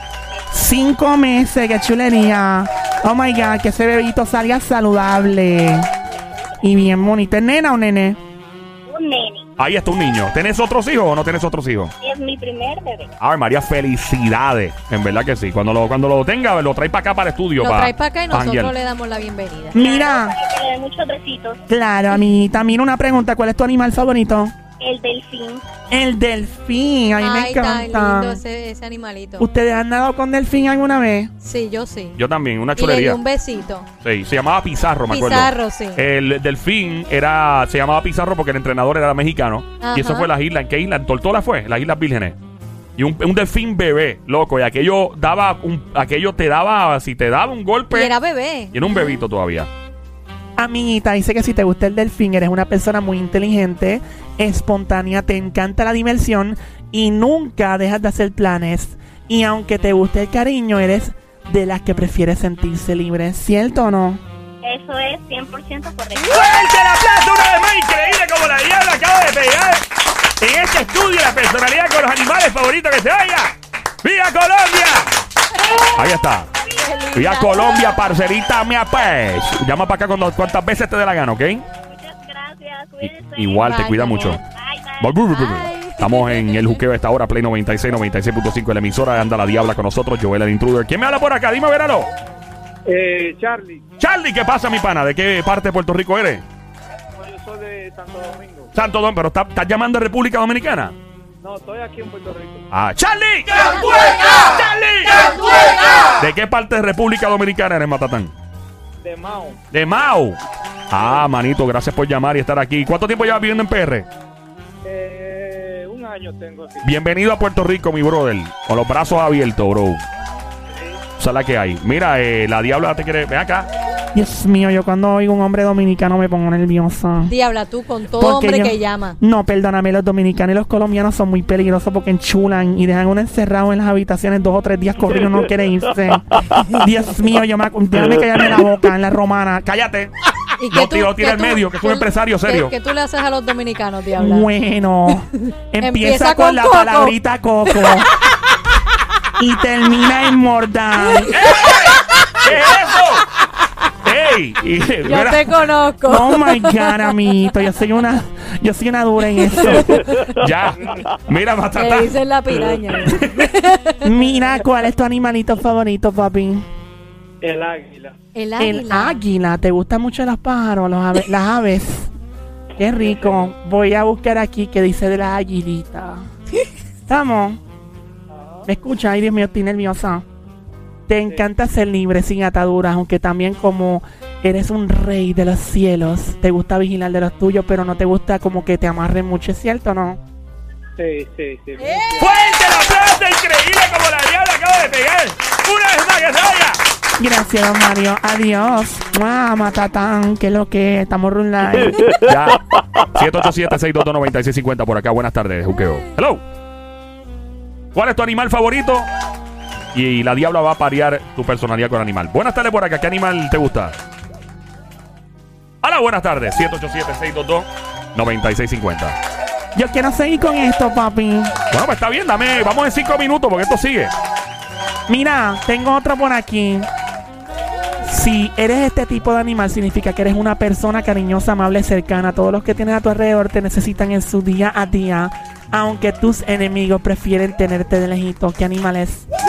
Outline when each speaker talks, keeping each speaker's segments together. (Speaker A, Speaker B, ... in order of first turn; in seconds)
Speaker A: 0.5-5.9, 6.6-8.2, 19.7-20.3, 21.7-24.5, 25.9-28.4, 29.4-31.3, 50.6-64.2, 124.1-127.3, 128.2-139.7, 144.2-148.1, 149.4-151.3, 156.1-160.0, 164.0-166.7, 168.6-172.1, 172.8-176.2, 177.1-177.6, 178.6-180.2, 181.1-190.2, 197.2-202.1, 219.7-221.5, 225.1-226.9, 228.0-239.2
Speaker B: 6.1-7.0, 8.9-9.5, 12.0-13.1, 19.8-21.6, 24.8-25.6, 64.6-66.4, 81.9-83.8, 84.5-85.1
Speaker C: 9.6-11.9, 13.2-18.7, 32.1-33.2, 34.0-42.4, 43.0-48.1, 48.7-49.7, 66.2-69.8, 70.4-75.1, 75.9-76.5, 77.1-81.7, 83.0-84.4, 85.0-92.1, 94.0-96.4, 98.7-101.0, 102.7-108.3, 109.7-110.4, 110.9-114.1, 116.8-120.0, 121.2-123.7, 139.7-140.1, 140.7-142.7, 151.3-153.2, 154.0-155.5, 160.3-162.1, 192.2-196.8, 202.2-206.4, 207.9-209.1, 209.9-214.0, 215.8-219.2, 221.7-224.1
Speaker D: 17.6-19.8, 27.2-29.5, 31.4-32.2, 32.7-33.9, 35.1-36.0, 39.8-40.3, 47.9-49.2, 76.8-78.0, 83.6-84.4, 85.3-86.8, 127.3-129.2, 140.6-144.5, 145.8-147.1, 155.0-157.1, 159.8-160.2, 161.8-164.1, 168.3-169.2, 191.8-192.2
Speaker E: 92.9-93.8, 97.2-98.7, 101.4-102.6, 109.0-109.6, 114.8-116.9, 120.7-121.0, 167.4-168.1, 172.8-173.5, 178.3-178.7, 191.0-192.2